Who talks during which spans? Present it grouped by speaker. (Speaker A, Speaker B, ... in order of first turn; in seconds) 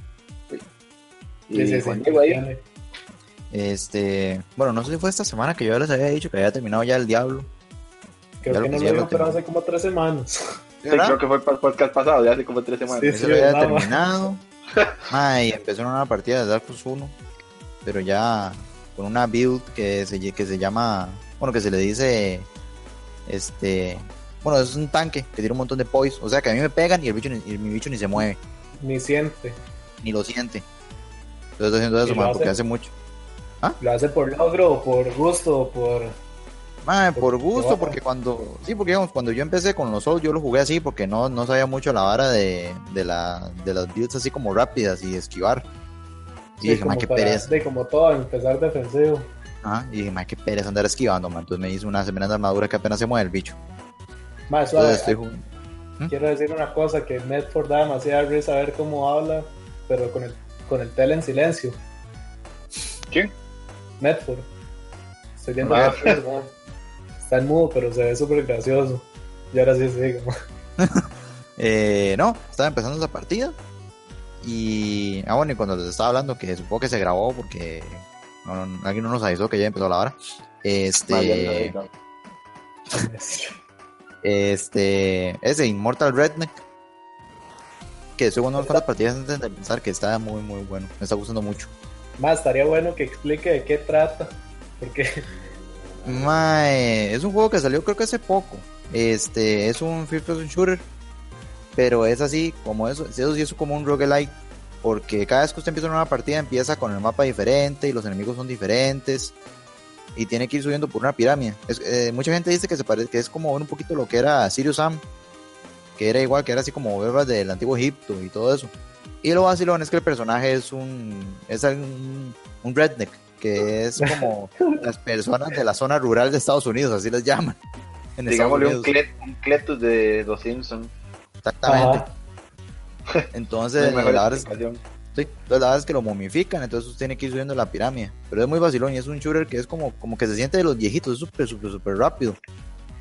Speaker A: 1.5-2.4, 10.9-13.2, 65.7-66.1, 81.1-81.9, 128.3-130.9, 133.8-134.8
Speaker B: 1.5-2.6, 8.4-10.4, 12.9-14.0, 28.8-29.6, 32.0-32.6, 33.8-36.1, 37.1-38.0, 46.6-49.3, 54.5-55.2, 56.1-61.8, 64.0-64.5, 65.4-66.5, 67.2-70.3, 82.9-83.6, 88.5-88.8, 92.2-95.2, 124.0-124.8, 131.7-132.1
Speaker C: 3.5-7.5, 8.5-9.4, 10.8-11.2, 13.1-14.4, 15.1-17.2, 17.8-22.5, 23.3-28.4, 30.0-30.6, 31.6-32.9, 36.8-45.7, 46.6-47.6, 49.6-53.6, 54.8-55.4, 70.8-71.1, 71.6-73.6, 74.4-81.8, 84.2-86.6, 88.2-91.7, 96.0-100.9, 101.8-109.3, 110.2-115.0, 116.0-127.6, 128.2-128.9, 131.4-132.0, 133.3-134.5, 135.2-142.4